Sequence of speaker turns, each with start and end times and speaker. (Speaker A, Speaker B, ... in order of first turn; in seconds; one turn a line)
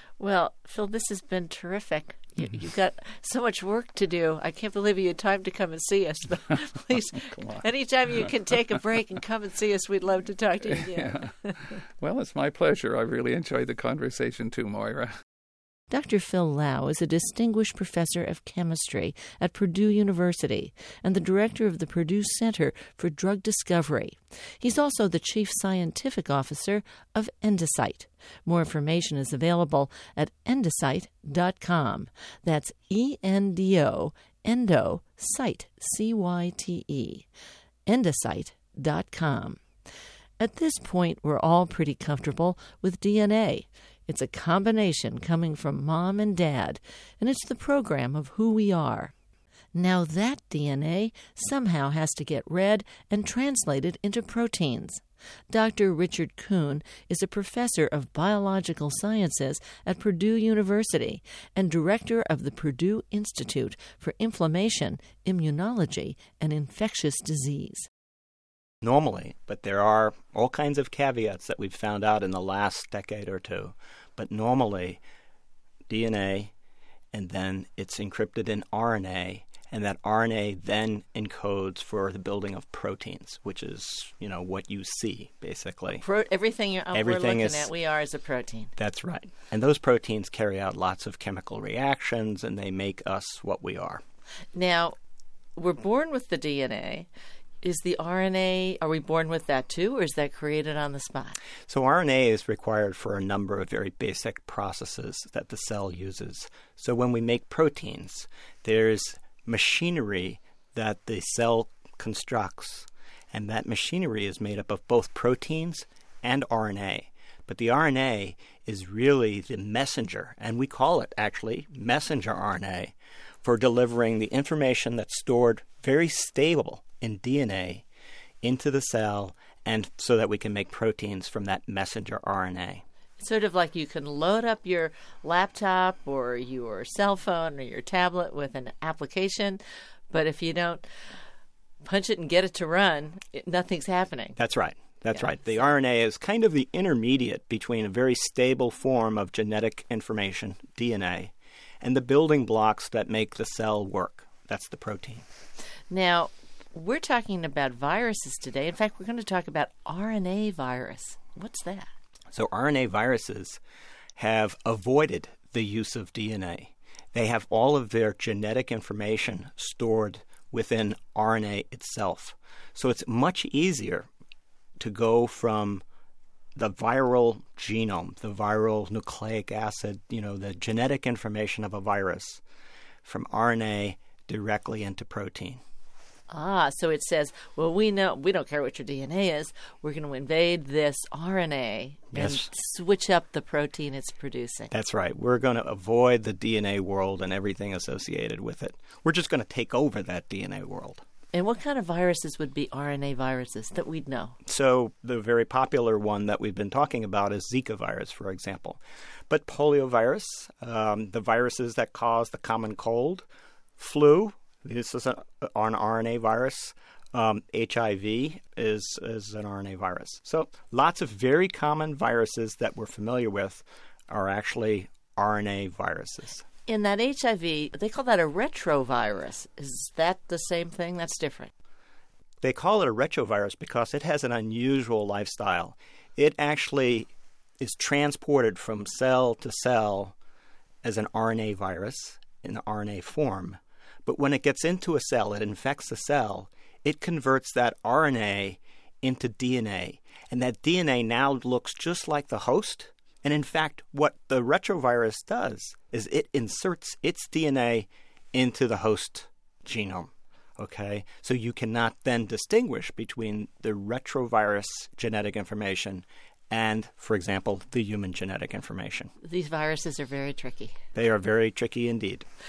Speaker A: 0.2-11.7
Speaker B: 7.3-7.6
Speaker B: 10.8-15.2
Speaker A: 15.9-37.3
Speaker A: 37.9-39.6
Speaker A: 40.4-49.1
Speaker A: 49.7-67.9
Speaker C: 68.8-75.0
Speaker C: 75.9-76.5
Speaker C: 77.1-86.0
Speaker A: 86.0-88.7
Speaker C: 86.9-87.7
Speaker C: 88.8-94.0
Speaker A: 94.5-95.0
Speaker A: 95.6-97.1
Speaker A: 97.6-101.4
Speaker C: 101.7-127.8
Speaker C: 128.4-132.8
Speaker A: 133.2-140.8
Speaker A: 141.8-144.4
Speaker C: 144.4-155.2
Speaker A: 155.9-161.9
Speaker C: 162.3-163.6
Speaker C: 164.2-174.1
Speaker C: 174.8-175.8
Speaker C: 176.6-182.4
Speaker C: 183.0-185.6
Speaker A: 186.3-194.7
Speaker C: 192.1-192.5
Speaker C: 194.7-201.0
Speaker A: 201.3-204.3
Speaker C: 204.5-213.2
Speaker C: 213.8-226.5
Speaker A: 226.7-231.5
Speaker C: 232.4-240.2
Speaker C: 240.8-269.1
Speaker A: 269.2-270.8
Speaker C: 270.9-272.3